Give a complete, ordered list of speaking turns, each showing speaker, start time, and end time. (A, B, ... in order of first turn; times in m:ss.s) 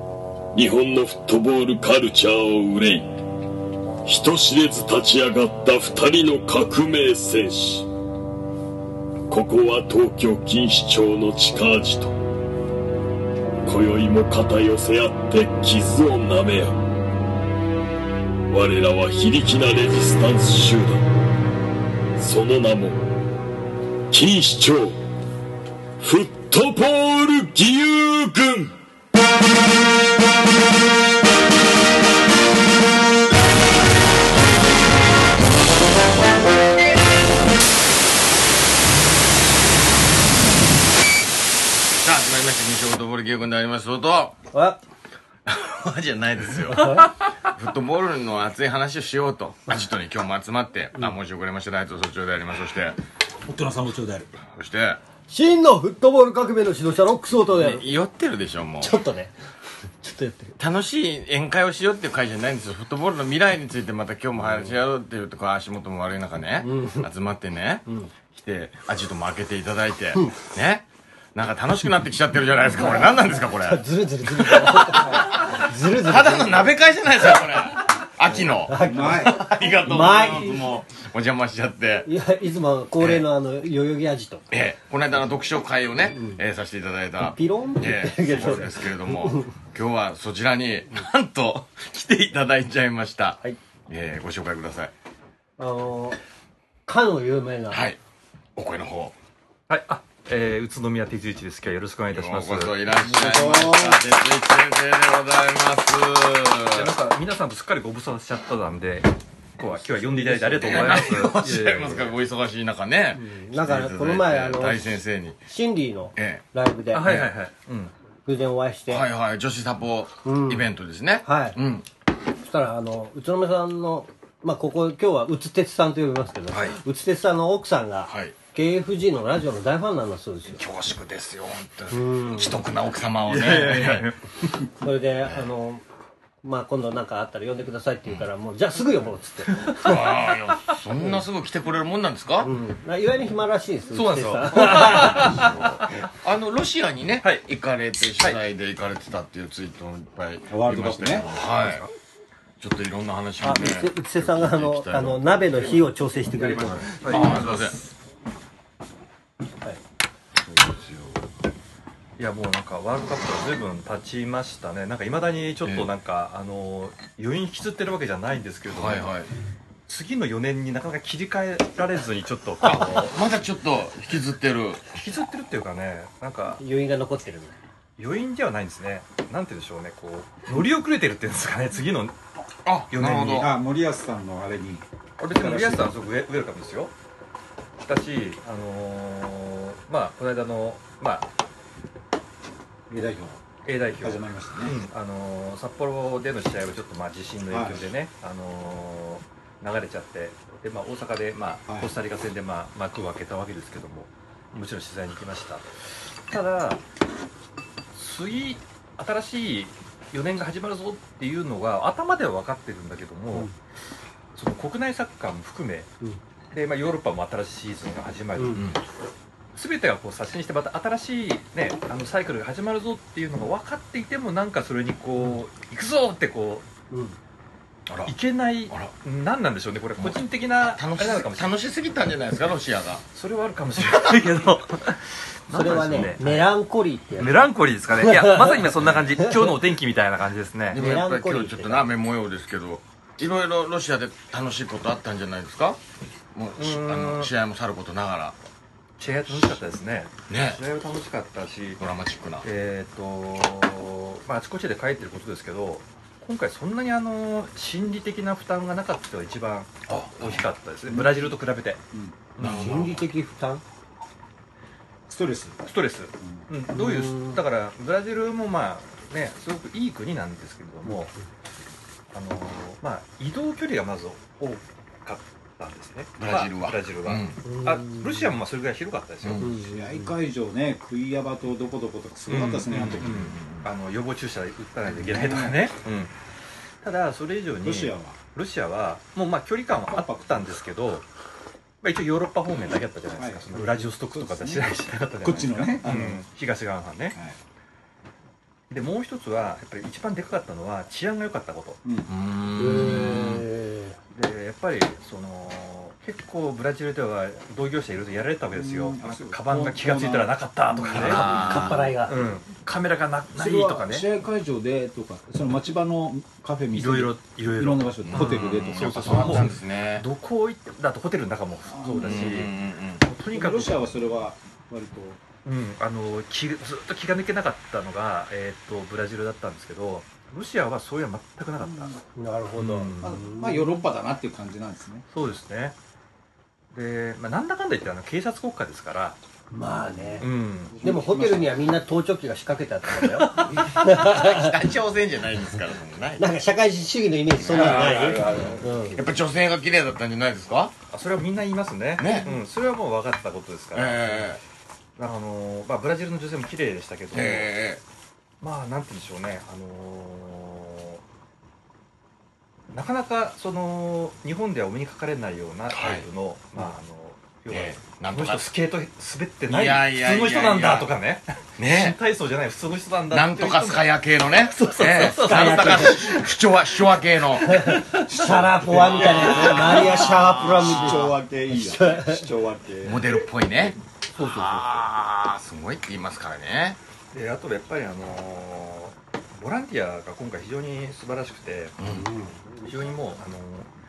0:00.5-0:03.1 A
0:04.1-0:07.9 A
0:09.3-0:12.1 A
0:13.7-0:16.8 A
0:18.5-0:21.1 A
0:22.2-0:23.0 A
0:24.1-0:25.0 A
0:26.0-0:28.7 A
0:42.0-0:44.4 B
0:44.5-0:44.8 C
0:45.5-0:53.0 B
0:46.7-0:47.1 C
0:53.5-0:54.3 D
0:54.4-0:55.0 B
0:55.3-0:57.9 C
0:57.5-0:59.0 B
0:58.8-0:59.3 C
1:00.0-1:00.6 C
1:00.6-1:22.1 B
1:06.6-1:07.1 C
1:12.7-1:16.8 C
1:18.6-1:20.7 C
1:18.7-1:19.5 D
1:22.0-1:24.4 C
1:23.0-1:23.3 B
1:24.5-1:34.9 B
1:26.1-1:26.4 C
1:27.2-1:29.5 C
1:35.6-1:36.2 C
1:36.9-1:37.8 C
1:37.7-1:38.0 B
1:38.6-1:39.2 B
1:39.7-1:42.8 E
1:42.1-1:46.9 B
1:43.1-1:44.0 D
1:43.1-1:43.8 C
1:46.7-1:52.1 E
1:49.7-1:51.2 C
1:50.6-1:55.4 B
1:53.2-1:57.3 C
1:56.2-1:56.5 B
1:56.9-1:57.9 E
1:58.2-1:59.1 C
1:58.9-2:01.9 B
2:00.2-2:00.6 C
2:01.2-2:01.6 C
2:02.4-2:10.6 C
2:06.5-2:06.8 B
2:08.1-2:08.4 B
2:10.5-2:14.1 B
2:11.9-2:12.6 C
2:13.3-2:14.2 E
2:14.8-2:15.8 C
2:16.4-2:20.0 C
2:19.5-2:20.0 E
2:19.8-2:22.5 B
2:22.4-2:25.5 C
2:23.9-2:26.1 E
2:24.6-2:31.9 B
2:30.5-2:31.3 D
2:31.6-2:31.9 E
2:32.6-2:35.8 B
2:33.4-2:37.4 C
2:36.4-2:37.8 E
2:36.4-2:37.8 B
2:40.4-2:41.2 B
2:42.2-2:49.1 E
2:45.6-2:45.9 B
2:48.7-2:49.3 B
2:49.9-2:53.2 E
2:52.6-2:54.9 B
2:54.9-2:56.6 E
2:56.6-2:57.6 C
2:58.0-3:02.2 E
3:02.6-3:03.5 B
3:02.9-3:03.5 E
3:03.3-3:05.9 D
3:05.2-3:06.9 E
3:07.8-3:11.3 E
3:12.9-3:13.4 D
3:13.6-3:25.7 E
3:14.0-3:14.8 D
3:17.5-3:17.8 D
3:26.3-3:26.8 E
3:27.9-3:33.5 E
3:34.4-3:35.9 E
3:36.5-3:38.6 E
3:38.4-3:38.6 C
3:38.5-3:38.8 B
3:39.6-3:46.7 E
3:46.9-3:47.2 C
3:47.9-3:48.1 B
3:48.0-3:51.5 E
3:50.8-3:53.0 B
3:53.1-3:56.5 E
3:55.5-3:57.4 C
3:57.2-4:00.8 E
3:58.0-3:58.7 C
3:58.8-3:59.1 B
4:00.7-4:05.8 B
4:00.8-4:01.9 C
4:06.3-4:08.4 B
4:06.6-4:07.3 E
4:09.0-4:11.8 E
4:10.3-4:10.6 B
4:11.8-4:12.5 B
4:12.4-4:21.8 E
4:19.9-4:20.5 B
4:20.9-4:21.4 D
4:21.9-4:22.2 D
4:22.4-4:22.9 E
4:22.4-4:23.1 B
4:22.4-4:23.6 C
4:25.1-4:25.6 D
4:25.6-4:31.1 E
4:26.7-4:27.4 C
4:32.1-4:39.5 E
4:36.2-4:37.4 B
4:37.4-4:38.3 C
4:39.2-4:39.5 B
4:39.4-4:40.2 C
4:39.6-4:43.2 D
4:42.3-4:46.1 E
4:42.7-4:43.7 B
4:44.9-4:45.7 D
4:46.8-4:51.1 E
4:47.6-4:48.2 D
4:49.9-4:50.4 D
4:51.8-4:57.2 E
4:53.1-4:56.2 D
4:58.7-5:01.8 E
5:01.8-5:02.1 D
5:02.1-5:03.5 B
5:02.6-5:04.0 C
5:04.1-5:14.1 E
5:08.5-5:11.8 D
5:10.9-5:11.9 B
5:11.0-5:12.2 C
5:13.4-5:19.5 D
5:16.8-5:23.9 E
5:18.1-5:20.1 B
5:21.7-5:22.4 D
5:21.9-5:23.0 B
5:23.3-5:25.2 D
5:25.4-5:32.0 E
5:31.6-5:32.0 D
5:32.2-5:33.7 C
5:32.6-5:33.2 E
5:33.0-5:35.1 D
5:35.1-5:35.8 E
5:36.7-5:39.2 E
5:39.5-5:40.3 C
5:40.2-5:40.9 E
5:40.7-5:41.6 D
5:40.8-5:44.5 C
5:43.0-5:43.9 E
5:43.8-5:46.3 B
5:46.2-5:49.0 C
5:47.4-5:50.7 B
5:50.9-5:54.3 E
5:52.0-5:52.3 B
5:53.8-5:54.4 B
5:55.0-5:57.5 E
5:57.1-5:57.8 B
5:58.4-6:01.0 E
6:02.7-6:16.3 E
6:05.7-6:06.1 B
6:07.5-6:08.5 B
6:09.5-6:10.9 B
6:11.6-6:12.0 B
6:13.1-6:17.7 B
6:15.1-6:16.2 C
6:17.4-6:22.2 C
6:17.5-6:18.0 E
6:18.1-6:23.2 D
6:18.7-6:21.0 B
6:22.8-6:26.8 B
6:24.2-6:24.7 E
6:27.1-6:31.8 E
6:31.8-6:32.1 B
6:31.9-6:32.7 C
6:32.6-6:33.7 E